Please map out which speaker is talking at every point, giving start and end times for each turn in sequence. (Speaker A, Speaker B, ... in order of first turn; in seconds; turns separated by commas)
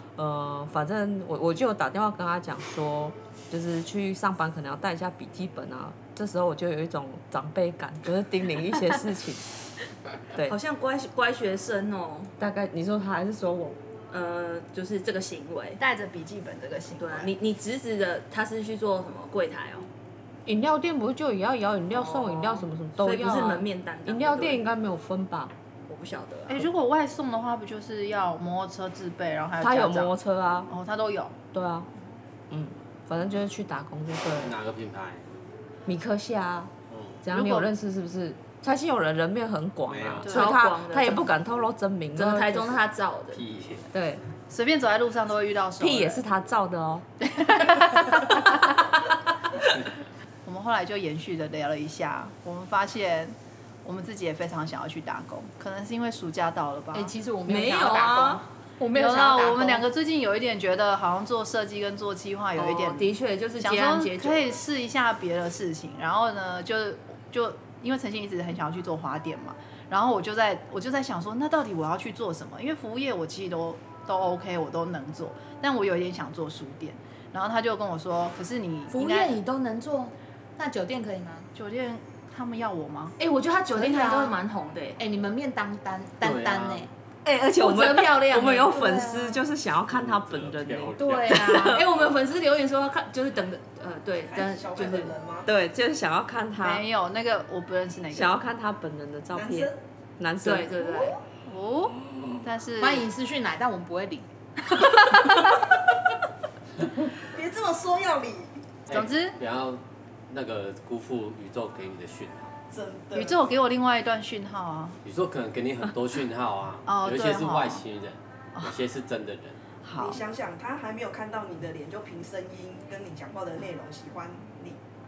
Speaker A: 0.2-9.5, Speaker B: 10.4-12.3, Speaker A: 12.4-13.8, Speaker B: 14.1-15.8, Speaker C: 15.8-17.3, Speaker B: 17.0-19.9, Speaker A: 20.5-25.5, Speaker B: 21.9-24.7, Speaker B: 25.9-26.6, Speaker C: 26.5-30.1, Speaker A: 29.6-30.7, Speaker C: 30.7-31.4, Speaker A: 31.5-31.9, Speaker A: 32.5-34.5, Speaker D: 34.4-35.2, Speaker A: 35.9-36.7, Speaker D: 36.9-37.2, Speaker A: 37.2-42.8, Speaker C: 37.3-37.7, Speaker D: 39.9-40.3, Speaker B: 40.3-41.3, Speaker B: 42.1-43.4, Speaker D: 43.3-43.9, Speaker A: 43.9-44.2, Speaker C: 44.5-46.2, Speaker A: 45.8-47.1, Speaker C: 47.4-48.2, Speaker C: 50.5-57.1, Speaker E: 56.9-59.9, Speaker B: 57.5-58.4, Speaker C: 58.9-79.4, Speaker B: 62.6-64.5, Speaker E: 78.9-81.5, Speaker C: 81.5-83.2, Speaker B: 83.2-85.0, Speaker C: 83.9-84.2, Speaker E: 85.0-86.9, Speaker D: 86.2-86.9, Speaker A: 87.2-91.9, Speaker B: 87.6-89.1, Speaker D: 89.9-91.5, Speaker E: 91.0-91.8, Speaker B: 91.3-95.2, Speaker F: 94.3-95.5, Speaker A: 95.5-96.8, Speaker C: 96.6-98.4, Speaker A: 98.1-100.8, Speaker F: 99.3-99.8, Speaker B: 100.4-101.2, Speaker F: 100.8-101.2, Speaker C: 101.5-103.1, Speaker E: 102.8-104.3, Speaker F: 107.3-108.5, Speaker D: 108.9-112.5, Speaker C: 108.9-109.4, Speaker F: 112.7-113.5, Speaker C: 113.1-115.0, Speaker D: 115.0-119.6, Speaker C: 116.9-117.8, Speaker F: 120.0-124.8